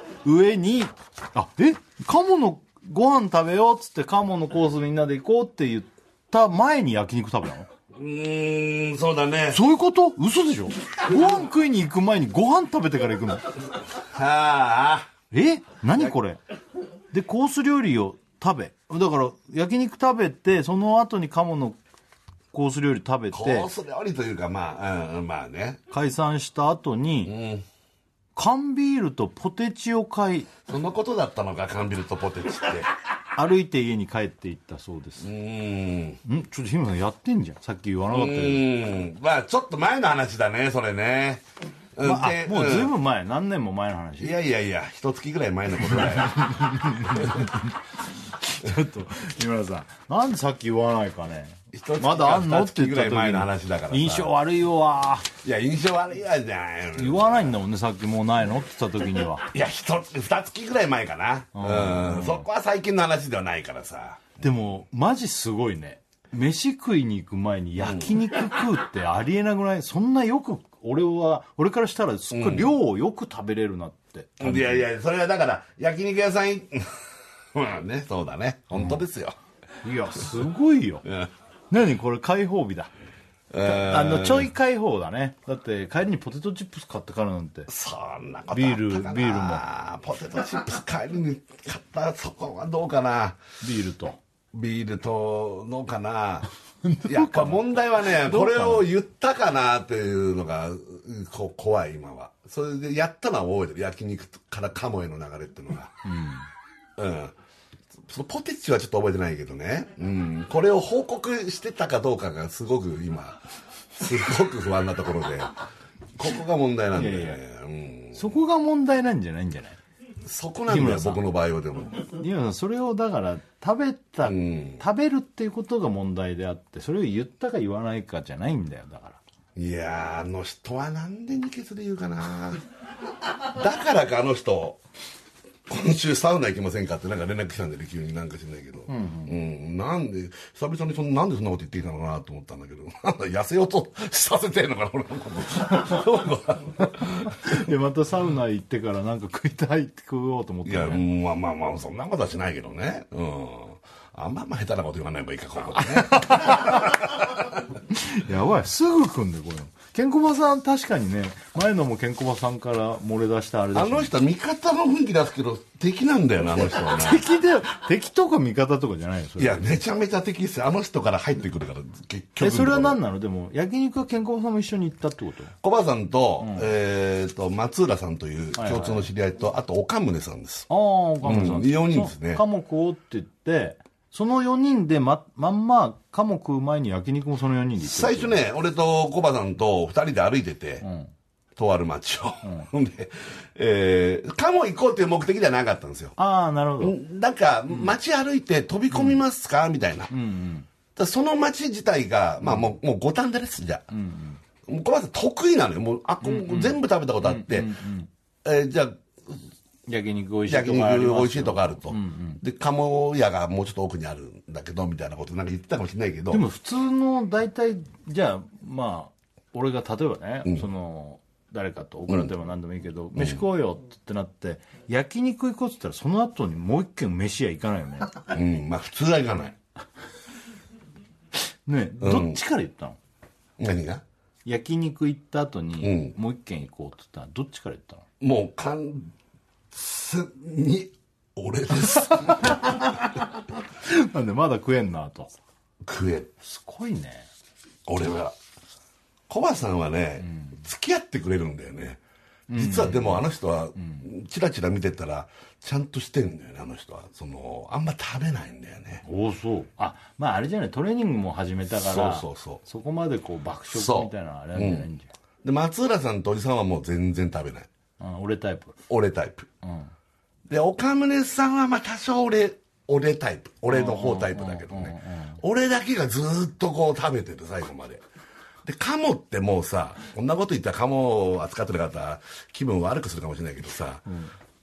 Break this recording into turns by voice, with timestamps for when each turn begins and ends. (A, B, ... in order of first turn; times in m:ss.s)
0:00.2-0:07.7 A
0:07.9-0:09.6 B
0:09.5-0:13.4 A
0:14.0-0:15.1 B
0:15.3-0:16.4 A
0:17.1-0:21.8 A
0:22.5-0:23.7 A
0:23.3-0:25.8 B
0:25.9-0:27.4 A
0:27.2-0:27.6 B
0:28.4-0:30.5 A
0:30.6-0:32.9 B
0:33.3-0:35.3 A
0:35.2-0:36.2 B
0:36.2-0:38.7 A
0:38.1-0:41.4 B
0:42.0-0:42.9 B
0:42.0-0:44.4 A
0:44.2-0:47.5 B
0:46.0-0:47.7 A
0:48.5-0:55.3 A
0:51.7-0:54.3 B
0:55.4-0:57.5 B
0:57.0-0:59.5 A
0:59.4-1:04.4 B
1:01.5-1:02.4 A
1:04.4-1:14.8 A
1:07.8-1:08.2 B
1:12.3-1:12.7 B
1:14.4-1:17.0 B
1:17.5-1:19.4 B
1:19.8-1:21.0 A
1:21.0-1:21.3 B
1:21.7-1:22.9 A
1:23.5-1:24.5 B
1:23.6-1:27.7 A
1:27.7-1:33.4 B
1:28.5-1:29.6 A
1:33.6-1:34.2 A
1:34.5-1:36.5 B
1:36.8-1:38.9 A
1:37.0-1:46.0 B
1:46.0-1:46.4 A
1:47.0-1:47.3 B
1:48.0-1:55.6 B
1:56.1-1:58.2 B
1:56.9-1:57.4 A
1:58.1-1:59.8 A
2:00.2-2:02.0 B
2:00.7-2:01.2 A
2:02.0-2:09.2 A
2:04.2-2:04.8 B
2:09.6-2:12.6 B
2:13.2-2:14.8 B
2:15.7-2:27.6 B
2:18.9-2:19.3 A
2:27.3-2:31.0 A
2:30.6-2:37.6 B
2:35.8-2:37.1 A
2:37.9-2:44.1 A
2:43.7-2:47.2 B
2:46.8-2:49.8 A
2:49.4-2:53.0 B
2:52.4-2:55.5 A
2:55.6-3:00.7 B
2:56.4-2:56.7 A
2:58.6-2:59.1 A
3:00.7-3:08.4 A
3:01.2-3:02.4 B
3:07.8-3:10.8 B
3:10.8-3:11.1 A
3:11.6-3:16.1 B
3:12.4-3:12.7 A
3:16.2-3:17.0 A
3:16.8-3:20.1 B
3:18.9-3:19.2 A
3:20.1-3:20.7 A
3:21.0-3:23.8 B
3:22.4-3:22.7 A
3:23.9-3:24.4 A
3:24.7-3:27.7 B
3:26.2-3:28.1 A
3:28.4-3:29.4 B
3:29.9-3:32.4 A
3:30.5-3:36.4 B
3:36.3-3:48.2 A
3:48.3-3:49.6 B
3:51.6-3:53.0 A
3:52.0-3:52.4 B
3:53.6-3:54.0 B
3:54.4-3:58.1 A
3:55.8-3:56.1 B
3:58.2-3:59.1 B
3:59.7-4:02.8 B
4:01.9-4:03.3 A
4:03.8-4:05.3 A
4:05.8-4:06.3 B
4:06.4-4:07.3 A
4:07.8-4:08.3 B
4:09.3-4:12.0 B
4:10.3-4:10.5 A
4:12.5-4:13.3 A
4:12.5-4:19.0 B
4:19.0-4:25.1 A
4:21.7-4:22.6 B
4:23.7-4:24.9 B
4:25.4-4:27.7 B
4:28.0-4:28.8 A
4:28.9-4:29.5 B
4:29.6-4:29.9 A
4:30.5-4:38.0 B
4:33.7-4:35.4 A
4:38.6-4:44.0 B
4:44.1-4:44.3 A